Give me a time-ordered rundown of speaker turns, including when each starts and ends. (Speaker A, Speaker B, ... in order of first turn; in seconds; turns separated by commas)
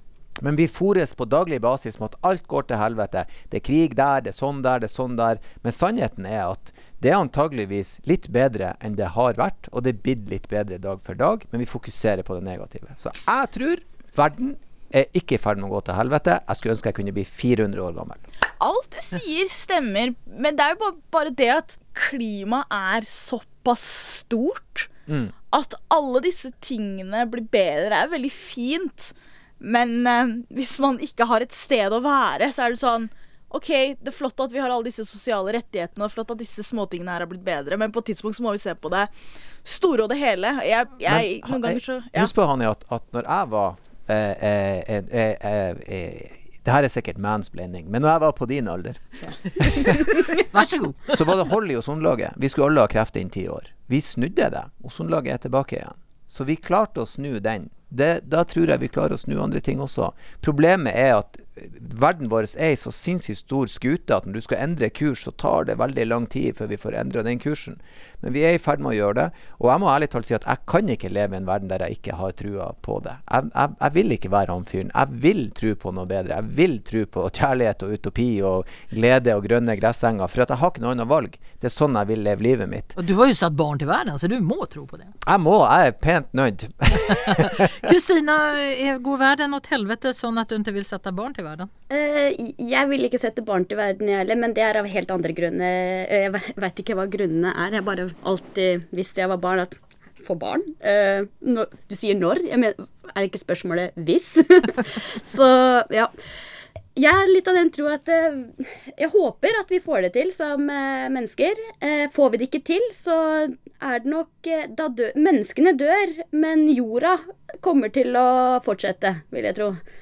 Speaker A: 0.4-18.2, Speaker B: 18.6-24.9, Speaker A: 25.1-25.3, Speaker B: 25.5-39.1, Speaker B: 39.6-42.3, Speaker A: 41.0-50.3, Speaker C: 50.3-51.1, Speaker A: 51.1-82.9, Speaker C: 83.0-85.1, Speaker A: 85.2-87.9, Speaker C: 87.1-91.7, Speaker D: 91.9-106.1, Speaker D: 106.9-119.8